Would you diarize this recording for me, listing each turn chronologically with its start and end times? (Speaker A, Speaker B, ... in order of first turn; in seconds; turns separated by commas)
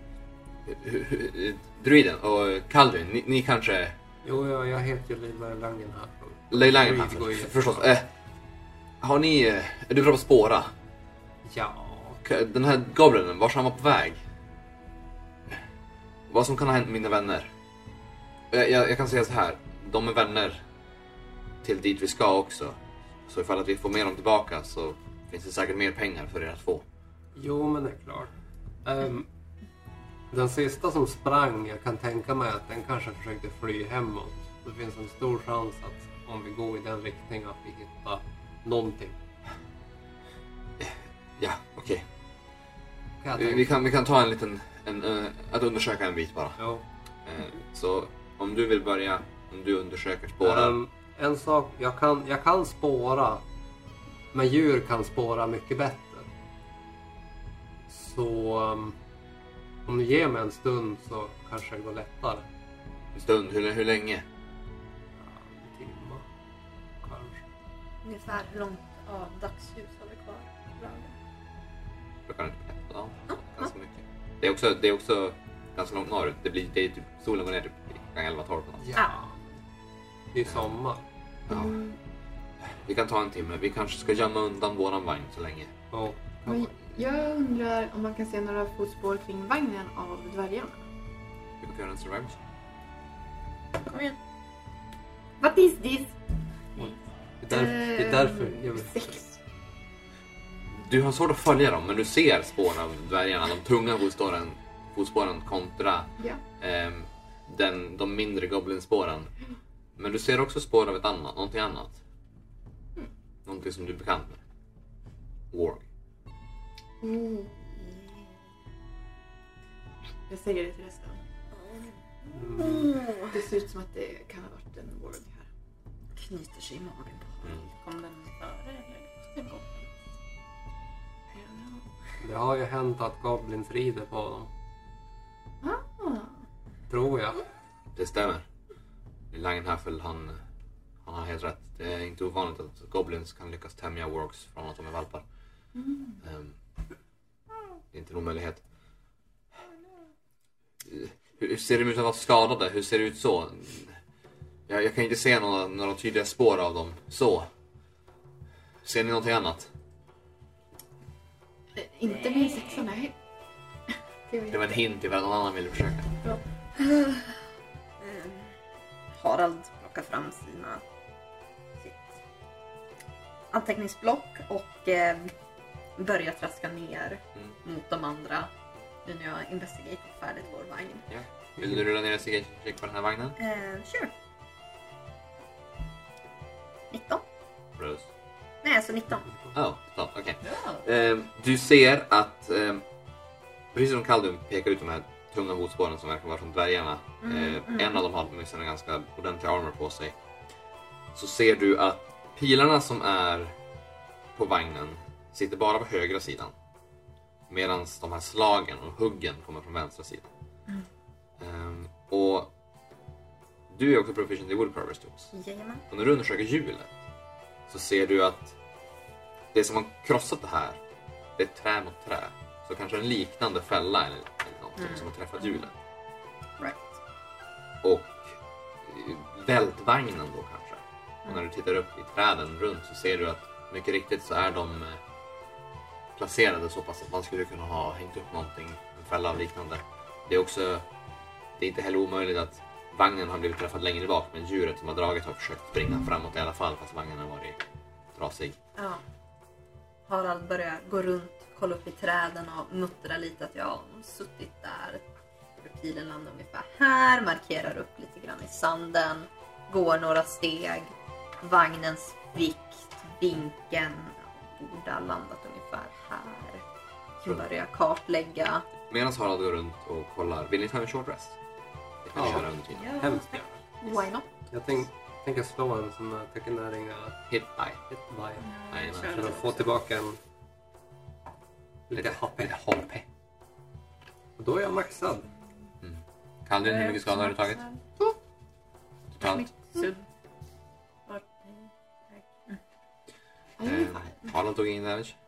Speaker A: 0.7-4.0, Speaker B: 4.2-7.8, Speaker A: 6.5-8.1, Speaker A: 9.0-10.7, Speaker B: 11.4-12.2, Speaker A: 12.2-14.2, Speaker A: 16.3-17.5, Speaker A: 18.5-20.6, Speaker A: 21.6-26.9, Speaker B: 27.4-28.3, Speaker B: 28.9-29.3, Speaker B: 30.3-39.2, Speaker A: 40.8-42.1, Speaker B: 43.2-43.7, Speaker A: 43.4-46.6, Speaker B: 46.6-46.8, Speaker A: 47.2-50.8, Speaker B: 50.4-53.4, Speaker B: 54.3-56.3, Speaker B: 57.9-59.0, Speaker B: 59.9-62.5, Speaker A: 63.1-64.2, Speaker B: 65.2-66.2, Speaker B: 67.0-67.4, Speaker C: 68.0-71.2, Speaker A: 72.3-78.8, Speaker B: 78.8-79.5, Speaker B: 80.3-81.0, Speaker A: 81.5-81.8, Speaker D: 81.5-82.0, Speaker A: 82.8-85.7, Speaker B: 85.9-86.6, Speaker D: 86.5-90.8, Speaker A: 91.6-92.4, Speaker C: 93.9-94.2, Speaker D: 95.4-96.2, Speaker B: 96.8-99.2, Speaker D: 97.5-99.3, Speaker A: 100.7-109.3, Speaker A: 110.0-112.0, Speaker A: 113.5-114.4, Speaker A: 115.5-115.8, Speaker D: 117.0-117.8, Speaker D: 120.3-121.2, Speaker C: 121.5-122.0, Speaker B: 122.3-122.9, Speaker C: 122.5-123.4, Speaker D: 123.3-125.5, Speaker C: 126.2-127.3, Speaker E: 127.7-129.8, Speaker E: 131.4-131.8, Speaker B: 132.2-134.5, Speaker D: 135.6-136.3, Speaker B: 136.9-137.4, Speaker A: 137.9-138.5, Speaker A: 139.3-140.4, Speaker A: 141.1-145.2, Speaker D: 145.8-146.2, Speaker A: 146.2-146.6, Speaker A: 147.9-148.6, Speaker A: 150.8-153.9, Speaker A: 154.7-157.5, Speaker A: 158.8-159.7, Speaker D: 161.8-163.1, Speaker E: 162.4-162.7, Speaker D: 164.3-164.7, Speaker A: 164.5-166.1, Speaker C: 166.8-167.4, Speaker C: 168.0-168.5, Speaker C: 169.1-170.8, Speaker C: 171.8-172.2, Speaker C: 173.5-175.3, Speaker C: 176.0-178.5, Speaker C: 179.1-181.1, Speaker A: 181.1-183.4, Speaker C: 183.4-184.1, Speaker C: 186.9-187.2, Speaker A: 187.8-188.1, Speaker C: 188.6-189.3, Speaker A: 189.5-192.8, Speaker E: 190.4-190.8, Speaker A: 193.7-200.2, Speaker C: 197.2-198.0, Speaker A: 201.1-203.6, Speaker A: 204.3-206.5, Speaker A: 207.5-210.3, Speaker A: 211.4-212.5, Speaker A: 213.7-215.3, Speaker C: 215.3-215.8, Speaker A: 215.9-216.9, Speaker A: 217.7-218.6, Speaker A: 219.5-220.8, Speaker A: 221.4-225.8, Speaker C: 224.8-225.1, Speaker C: 226.6-227.0, Speaker A: 227.8-235.0, Speaker A: 236.2-240.9, Speaker A: 241.6-247.6, Speaker A: 248.2-248.6, Speaker C: 248.8-249.0, Speaker C: 250.1-266.6, Speaker C: 267.2-268.7, Speaker A: 268.9-271.4, Speaker A: 272.0-273.0, Speaker B: 272.1-273.4, Speaker C: 272.9-273.2, Speaker C: 273.8-274.3, Speaker B: 274.5-277.2, Speaker A: 277.3-277.8, Speaker B: 277.9-278.5, Speaker E: 278.4-279.6, Speaker A: 278.7-279.5, Speaker B: 279.0-280.2, Speaker B: 281.9-282.5, Speaker A: 281.9-283.1, Speaker B: 284.4-285.3, Speaker A: 285.8-287.6, Speaker E: 286.6-287.8, Speaker A: 289.2-289.5, Speaker E: 289.7-290.0, Speaker E: 291.1-291.7, Speaker D: 293.6-294.1, Speaker A: 293.6-295.2